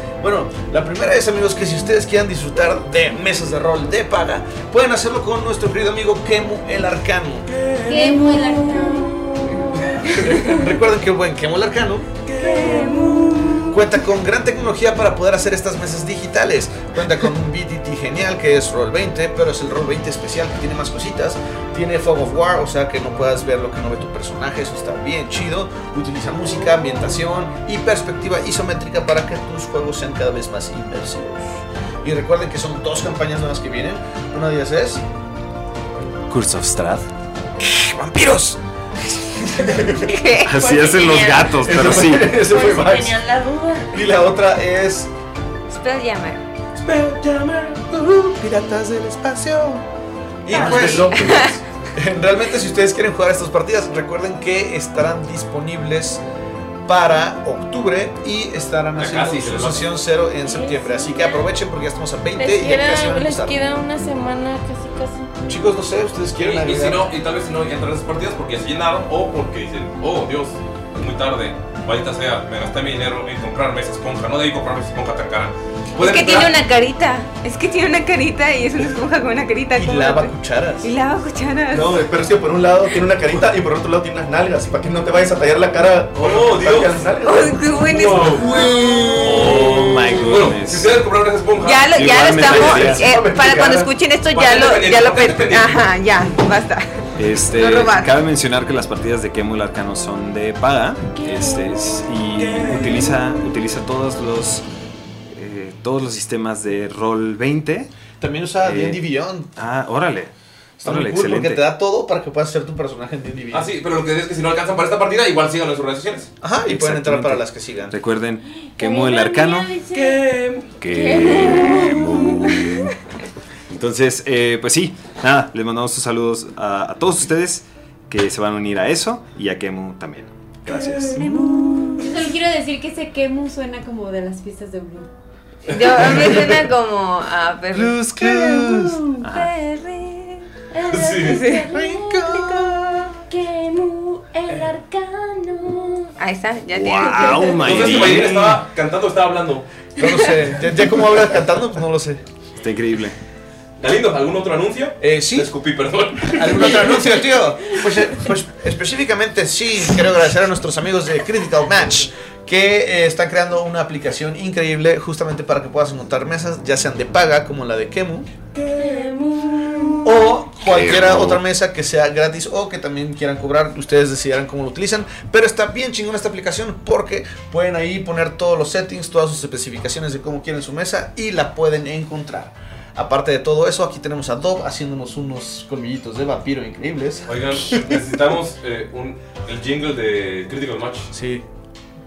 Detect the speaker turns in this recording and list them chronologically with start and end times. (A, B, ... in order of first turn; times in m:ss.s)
0:00.2-0:07.5 A
0:07.5-0:10.5 B
0:07.9-0:09.0 C
0:09.5-0:10.4 D
0:10.2-0:12.1 A
0:12.3-0:13.7 B
0:12.4-0:13.8 D
0:12.6-0:13.0 E
0:13.7-0:31.5 A
0:32.0-0:35.0 A
0:36.3-0:37.1 F
0:37.6-0:38.6 A
0:39.4-0:40.0 A
0:39.9-0:40.7 D
0:40.5-0:42.4 F
0:40.5-0:44.0 E
0:41.6-0:43.1 G
0:42.7-0:42.9 A
0:43.9-0:45.1 A
0:45.7-0:46.4 D
0:46.8-0:47.8 B
0:47.9-0:49.8 A
0:50.4-0:51.3 A
0:50.5-0:51.6 D
0:50.5-0:51.6 G
0:52.0-0:56.2 A
0:56.9-1:03.6 A
0:59.0-1:00.0 B
1:00.4-1:01.5 E
1:02.4-1:05.3 E
1:05.4-1:07.1 A
1:06.4-1:16.6 B
1:16.0-1:22.0 D
1:19.7-1:20.9 A
1:21.7-1:28.3 G
1:26.2-1:27.1 B
1:27.2-1:30.2 D
1:27.9-1:28.6 B
1:29.2-1:32.8 B
1:29.2-1:30.9 F
1:31.6-1:38.1 D
1:32.0-1:33.1 F
1:32.4-1:33.9 G
1:34.3-1:35.9 B
1:37.2-1:44.6 F
1:41.2-1:42.2 E
1:42.4-1:43.1 B
1:45.3-1:47.9 F
1:48.2-1:49.5 A
1:48.6-1:50.3 F
1:50.8-1:53.7 A
1:50.8-1:51.6 F
1:53.5-1:56.3 B
1:56.4-1:58.0 A
1:56.7-1:59.7 F
1:58.8-2:00.4 E
1:59.9-2:00.8 B
2:00.8-2:02.9 F
2:00.9-2:02.7 E
2:03.7-2:12.0 F
2:10.7-2:12.2 B
2:12.0-2:15.1 C
2:15.7-2:20.4 D
2:15.7-2:16.4 B
2:17.7-2:19.5 F
2:20.7-2:26.1 E
2:20.9-2:21.5 B
2:21.2-2:21.8 D
2:21.7-2:23.1 A
2:26.2-2:27.9 D
2:26.7-2:28.6 F
2:27.6-2:29.7 B
2:30.0-2:32.2 A
2:32.6-2:33.2 F
2:33.8-2:37.1 B
2:35.0-2:35.5 A
2:36.3-2:48.3 A
2:48.6-2:50.1 B
2:48.7-2:50.1 E
2:50.0-3:08.0 A
2:50.7-2:51.4 F
3:07.3-3:11.1 B
3:11.1-3:11.4 A